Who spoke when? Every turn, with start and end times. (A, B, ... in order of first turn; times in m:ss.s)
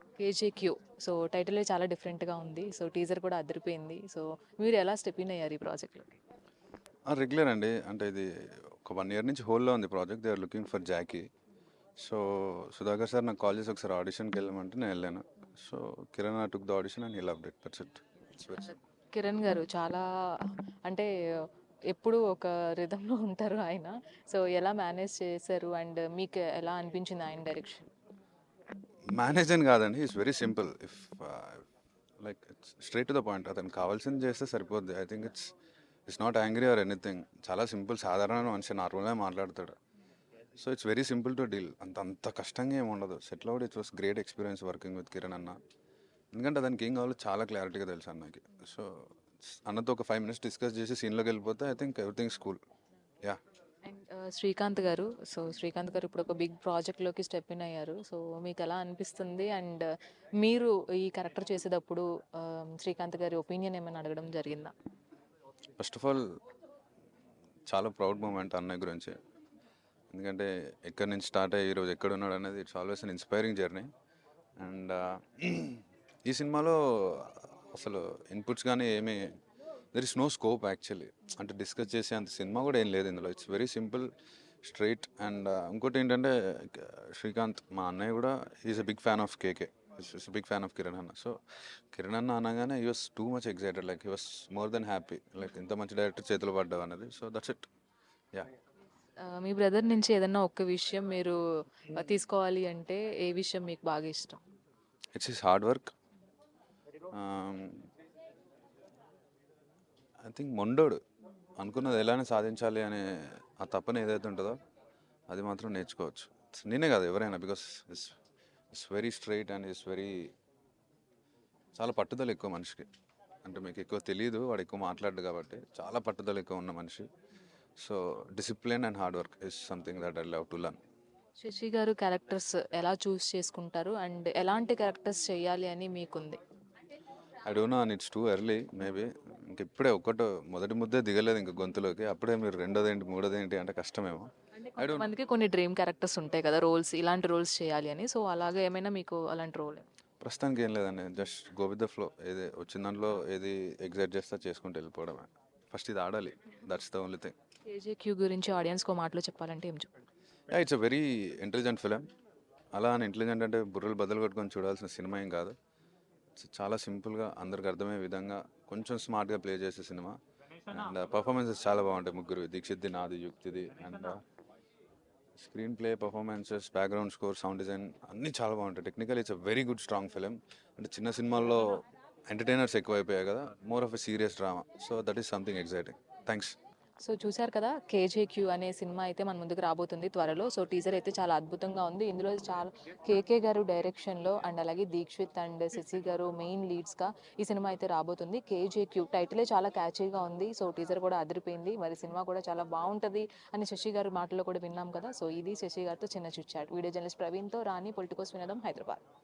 0:00.2-0:06.2 A
0:07.1-0:11.3 B
0:12.0-0:18.8 B
0:19.1-0:21.1 A
0:21.9-0:27.9 A
0:29.1-0:31.6 B
0:32.2-0:35.5 B
0:36.1-0:39.8 B
0:40.6-0:45.6 B
0:46.3-0:52.6 B
0:53.8-0:59.9 A
1:00.4-1:04.7 A
1:05.8-1:06.3 B
1:07.7-1:09.2 B
1:10.1-1:13.9 B
1:14.6-1:19.3 B
1:19.9-1:24.1 B
1:24.6-1:31.4 B
1:31.9-1:37.7 B
1:39.2-1:41.4 A
1:41.9-1:44.4 A
1:45.2-1:45.9 B
1:47.1-1:47.9 B
1:50.2-1:51.0 B
1:51.6-1:54.6 B
1:55.3-1:58.2 B
1:58.7-2:00.3 B
2:01.8-2:02.9 B
2:03.4-2:07.0 B
2:07.8-2:10.8 B
2:11.4-2:16.4 A
2:17.4-2:25.1 B
2:24.6-2:29.8 A
2:30.2-2:37.3 B
2:37.7-2:39.9 A
2:40.5-2:42.0 B
2:42.7-2:45.5 B
2:46.4-2:50.2 B
2:50.7-2:54.2 B
2:55.4-3:06.6 B
3:07.0-3:29.0 A